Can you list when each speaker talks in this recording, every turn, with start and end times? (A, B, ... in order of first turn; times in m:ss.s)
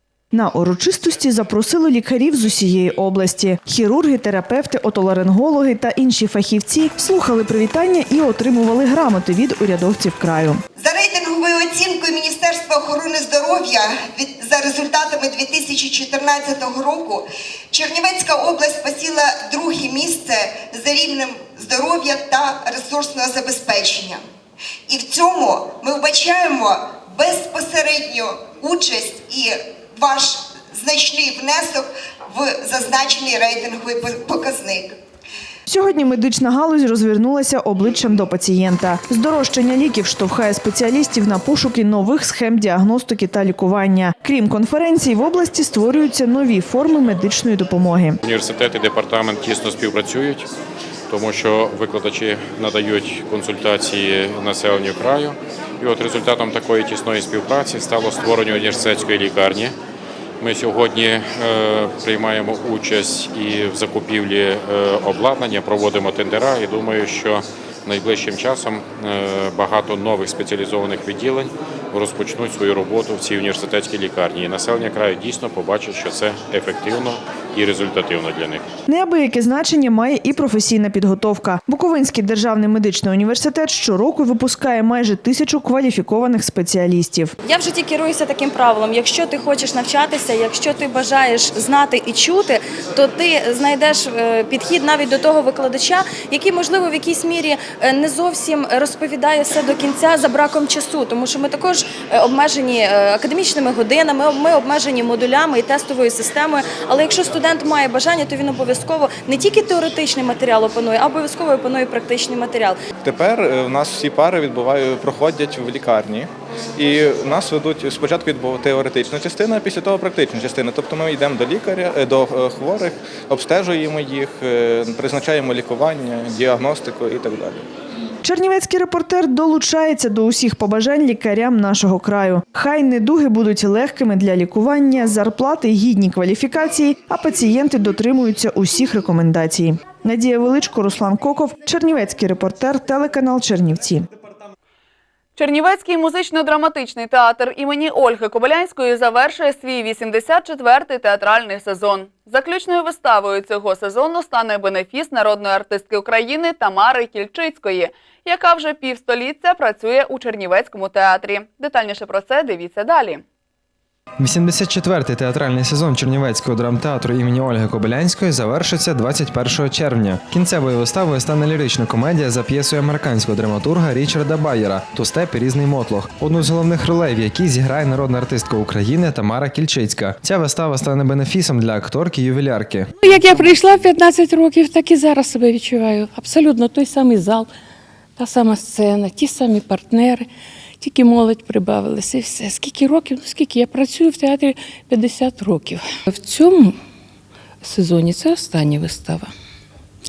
0:00.3-0:10.6 A
0:10.8-0:24.2 B
0:24.9-0:35.0 B
0:35.7-0:48.2 A
0:48.2-0:50.5 C
0:51.1-0:59.8 C
1:00.4-1:18.6 C
1:18.9-1:27.4 A
1:27.4-1:52.8 D
1:53.0-2:07.6 E
2:08.2-2:24.1 A
2:25.4-2:43.2 F
2:44.2-3:02.9 G
3:03.0-3:07.5 H
3:08.2-3:10.3 H
3:10.8-3:16.8 H
3:17.6-3:19.3 H